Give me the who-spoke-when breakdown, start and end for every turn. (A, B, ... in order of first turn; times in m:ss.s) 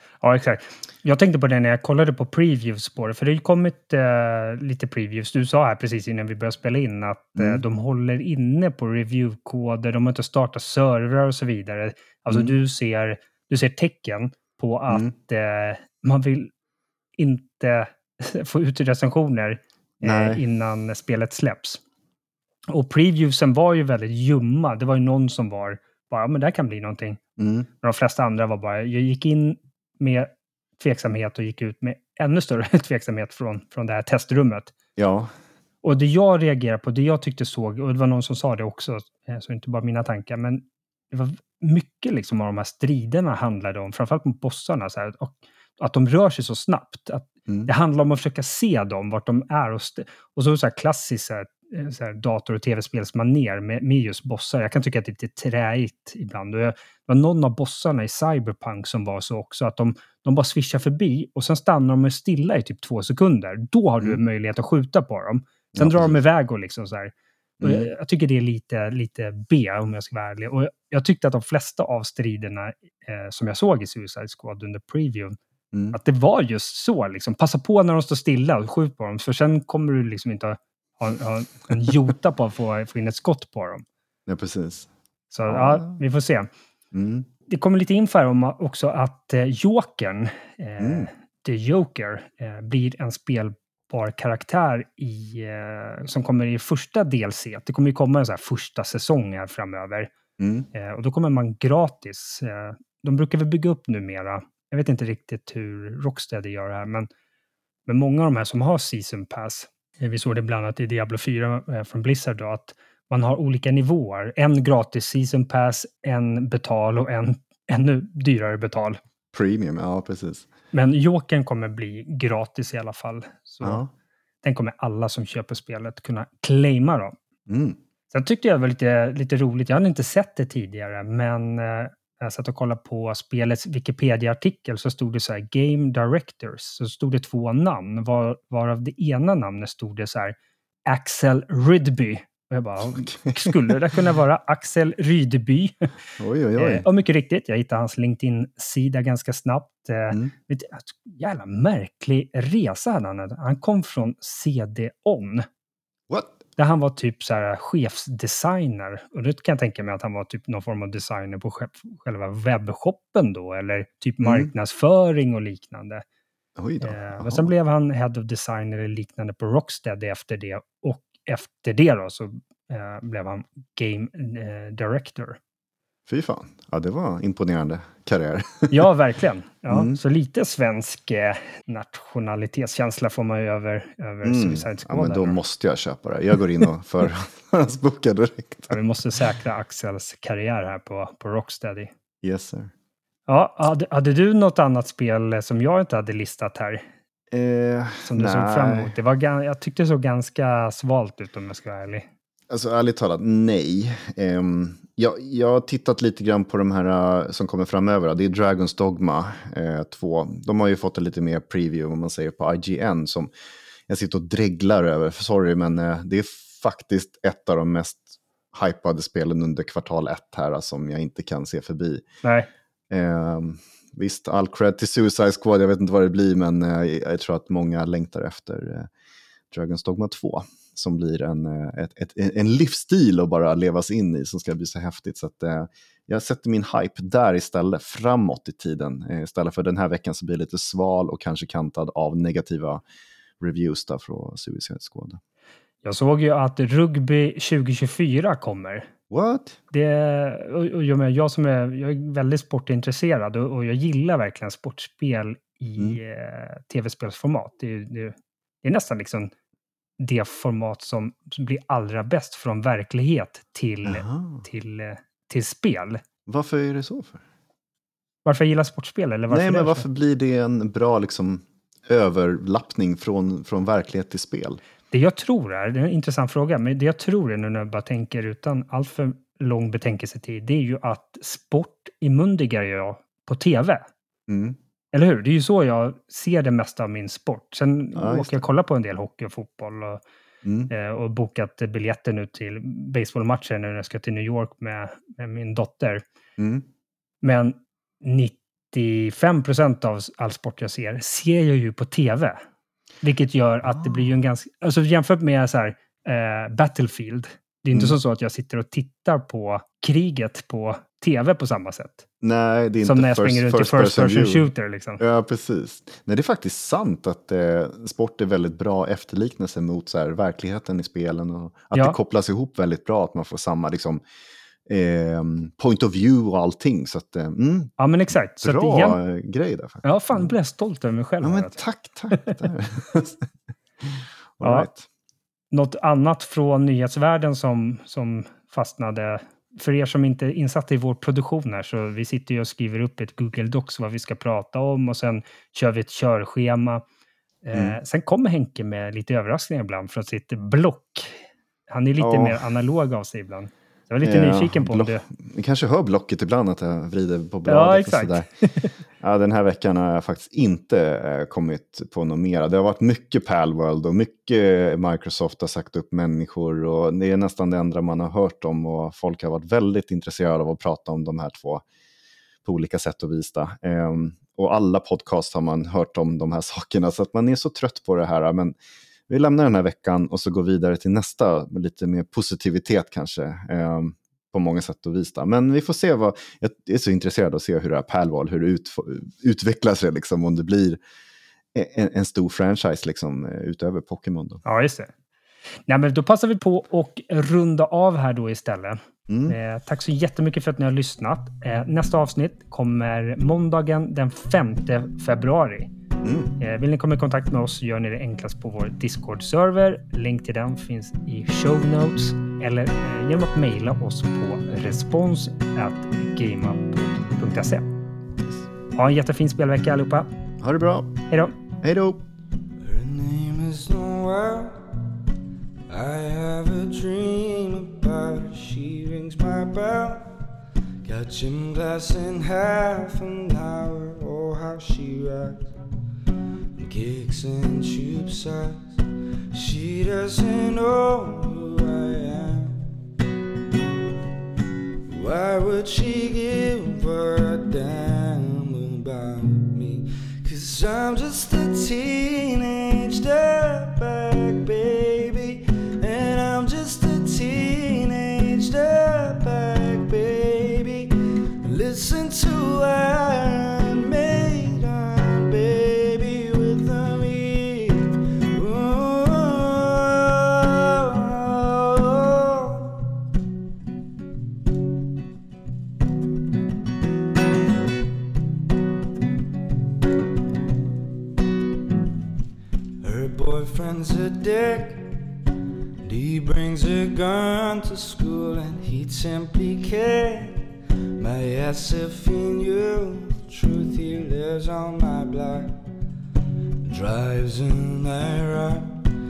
0:00.2-0:16.5 A
0:07.4-0:07.6 B
0:17.2-0:21.8 A
0:20.0-0:20.4 B
0:22.7-0:27.2 A
0:27.4-0:27.7 B
0:27.8-0:34.7 A
0:35.0-0:35.3 B
0:35.8-1:15.4 A
1:05.8-1:06.2 B
1:07.6-1:07.9 B
1:15.7-1:16.0 B
1:15.9-1:23.8 A
1:24.3-1:24.9 B
1:25.3-1:26.5 A
1:25.5-1:26.0 B
1:26.9-1:27.3 B
1:27.5-1:40.1 A
1:30.8-1:31.1 B
1:40.4-1:40.7 B
1:40.7-1:47.1 A
1:47.9-1:59.0 A
1:59.3-2:00.5 B
2:00.7-2:03.8 A
2:03.6-2:03.9 B
2:04.4-2:07.2 A
2:07.5-2:07.8 B
2:08.1-2:20.4 A
2:20.9-2:25.9 A
2:23.1-2:23.7 B
2:26.2-2:26.9 B
2:26.6-2:35.5 A
2:36.1-2:36.4 B
2:36.6-2:46.0 A
2:44.2-2:44.5 B
2:46.6-2:47.5 B
2:46.8-2:55.4 A
2:56.1-2:58.9 B
2:58.7-3:05.4 A
2:59.7-3:00.0 B
3:04.2-3:08.8 B
3:08.7-3:11.9 A
3:12.2-3:12.7 B
3:13.3-3:16.8 A
3:17.3-3:18.9 B
3:18.0-3:22.1 A
3:22.5-3:33.3 B
3:33.9-3:42.0 B
3:42.2-3:42.5 A
3:42.9-3:48.9 B
3:49.5-4:02.8 B
4:03.4-4:05.2 B
4:05.8-4:08.9 A
4:09.1-4:09.6 B
4:09.7-4:19.3 A
4:20.0-4:26.0 A
4:23.8-4:24.4 B
4:26.3-4:27.2 B
4:28.2-4:29.9 A
4:29.3-4:34.6 B
4:34.9-4:43.9 A
4:44.3-4:44.6 B
4:44.9-4:50.0 A
4:47.9-4:48.5 B
4:50.4-4:50.7 B
4:50.7-4:56.0 A
4:56.4-4:56.6 B
4:57.2-5:02.4 A
5:03.0-5:12.1 A
5:12.2-5:24.0 B
5:12.8-5:15.0 A
5:24.7-5:27.7 B
5:27.8-5:29.0 A
5:28.4-5:30.3 B
5:29.8-5:31.6 A
5:31.2-5:33.3 B
5:32.1-5:32.4 A
5:33.8-5:34.8 B
5:34.4-5:34.7 A
5:35.5-5:46.8 A
5:47.4-5:55.0 A
5:52.0-5:52.4 B
5:54.0-5:58.3 B
5:57.5-5:58.7 A
5:59.0-6:11.6 B
6:12.4-6:18.5 B
6:19.1-6:30.8 B
6:31.5-6:34.4 B
6:34.4-6:34.9 A
6:35.7-6:45.7 A
6:39.1-6:39.4 B
6:46.0-6:46.3 B
6:46.4-6:57.7 A
6:58.7-7:00.1 A
7:00.4-7:00.9 B
7:01.1-7:01.3 A
7:01.6-7:02.0 B
7:02.6-7:04.6 C
7:05.7-7:10.2 C
7:10.8-7:15.5 C
7:16.6-7:18.8 C
7:19.3-7:22.6 C
7:24.9-7:52.9 C
8:02.8-8:04.9 C
8:05.8-8:15.6 C
8:16.7-8:18.9 C